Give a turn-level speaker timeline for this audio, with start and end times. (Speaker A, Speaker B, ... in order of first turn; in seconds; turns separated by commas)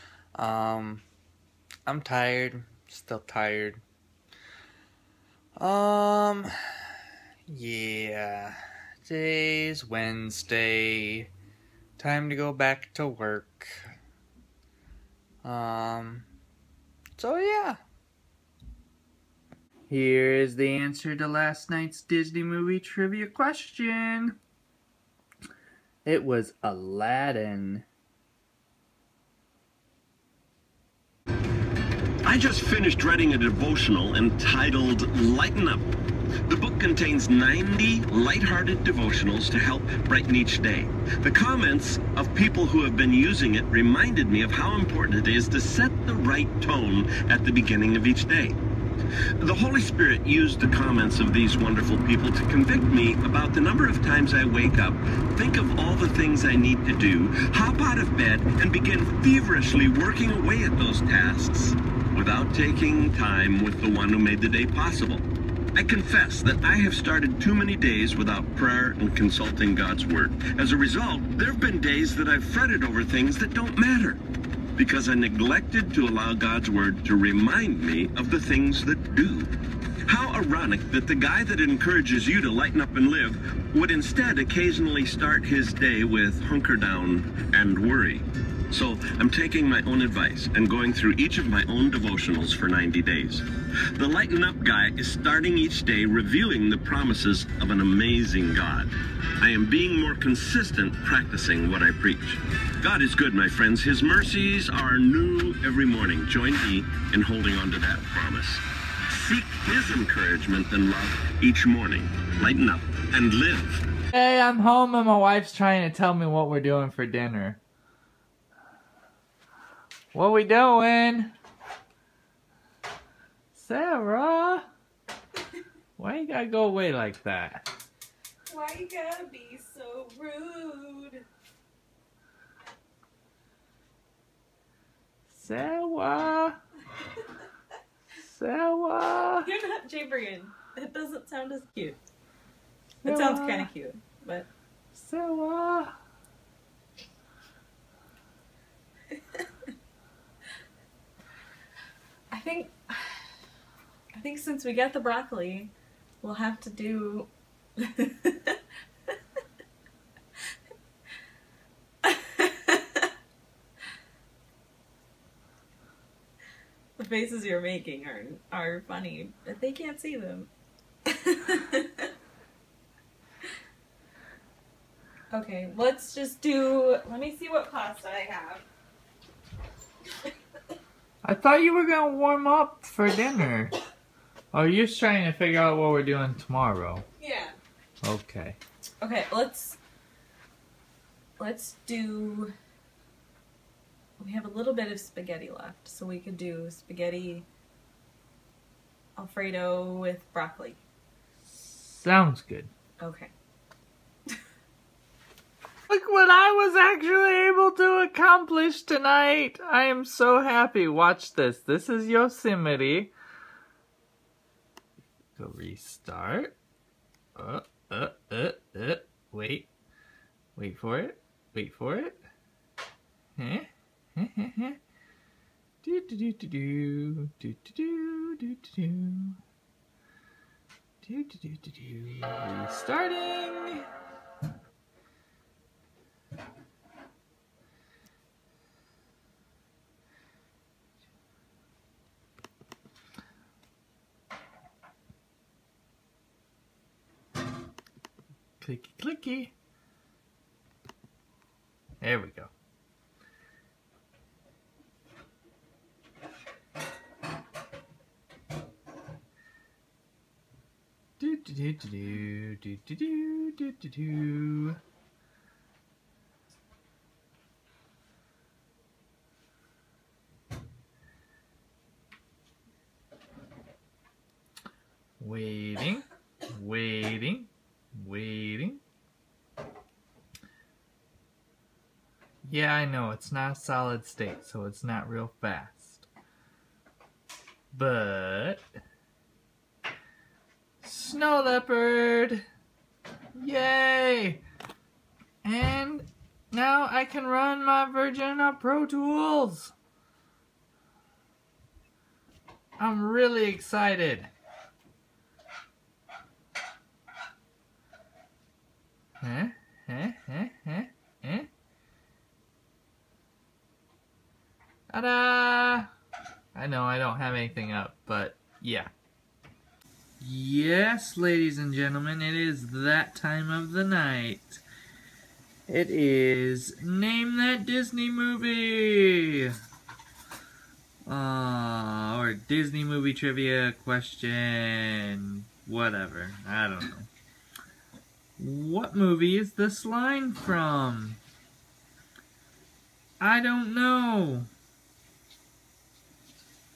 Speaker A: 0.3-1.0, Speaker A: 1.9-3.8, Speaker A: 5.6-6.5, Speaker A: 7.5-11.3, Speaker A: 12.0-13.9, Speaker A: 15.4-16.3, Speaker A: 17.2-17.8, Speaker A: 19.9-24.4, Speaker A: 26.1-27.9, Speaker B: 32.2-36.0, Speaker B: 36.5-48.6, Speaker B: 49.4-74.2, Speaker B: 74.8-79.5, Speaker B: 80.1-113.8, Speaker A: 114.1-117.6, Speaker A: 120.1-121.3, Speaker A: 123.5-124.7, Speaker A: 126.0-127.7, Speaker C: 128.5-131.3, Speaker A: 135.3-136.6, Speaker A: 138.2-139.5, Speaker C: 139.4-142.0, Speaker C: 143.0-144.5, Speaker A: 143.0-143.7, Speaker A: 144.9-145.9, Speaker C: 152.3-153.3, Speaker C: 154.2-159.2, Speaker C: 162.0-163.1, Speaker C: 167.0-170.5, Speaker C: 171.1-172.1, Speaker C: 175.3-178.7, Speaker A: 181.2-183.7, Speaker A: 184.5-187.1, Speaker C: 187.2-187.6, Speaker A: 188.0-188.6, Speaker C: 189.0-189.8, Speaker C: 191.4-192.5, Speaker C: 194.2-197.5, Speaker C: 199.2-200.8, Speaker A: 201.5-202.7, Speaker C: 203.0-203.3, Speaker A: 205.9-213.1, Speaker A: 215.4-216.6, Speaker A: 217.4-219.7, Speaker A: 220.6-222.2, Speaker A: 223.4-224.8, Speaker A: 225.8-229.4, Speaker A: 231.0-233.9, Speaker A: 248.6-249.5, Speaker A: 252.0-252.5, Speaker A: 261.2-264.8, Speaker A: 275.2-278.8, Speaker A: 282.4-286.1, Speaker A: 287.7-288.6, Speaker A: 290.8-292.4, Speaker A: 293.4-294.4, Speaker A: 295.4-299.7, Speaker A: 302.8-304.3, Speaker A: 309.2-311.5, Speaker A: 314.9-315.9, Speaker A: 316.6-318.9, Speaker A: 320.2-324.6, Speaker A: 325.7-329.6, Speaker A: 331.1-337.1, Speaker A: 338.4-341.2, Speaker A: 343.2-344.5